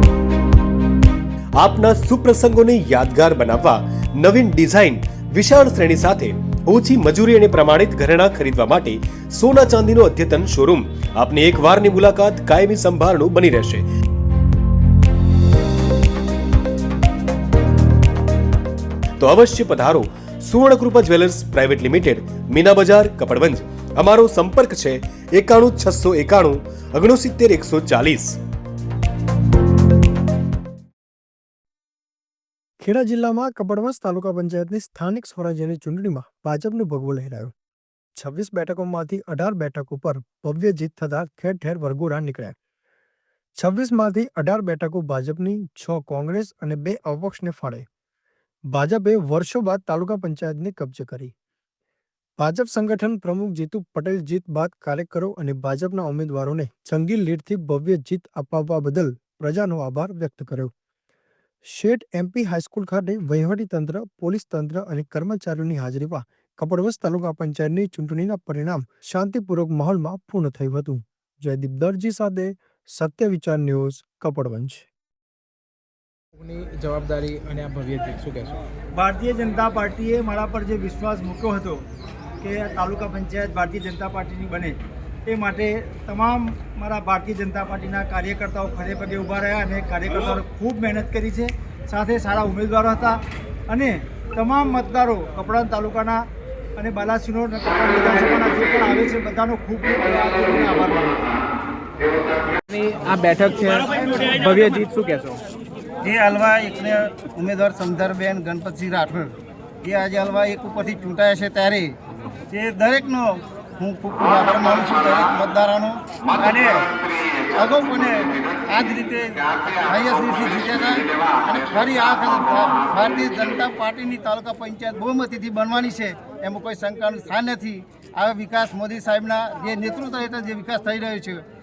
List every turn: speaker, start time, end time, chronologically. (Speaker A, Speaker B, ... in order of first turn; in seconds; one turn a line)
Speaker A: 1.6-13.8
Speaker A: 19.2-28.4
Speaker B: 32.8-37.5
Speaker B: 38.2-42.5
Speaker B: 43.6-47.9
Speaker B: 48.7-51.3
Speaker B: 52.4-60.7
Speaker B: 61.7-74.9
Speaker C: 76.3-78.6
Speaker D: 78.9-81.8
Speaker D: 82.4-96.2
Speaker D: 96.8-101.2
Speaker C: 102.7-105.4
Speaker D: 103.9-104.7
Speaker E: 106.0-111.9
Speaker E: 112.5-117.0
Speaker E: 117.5-131.4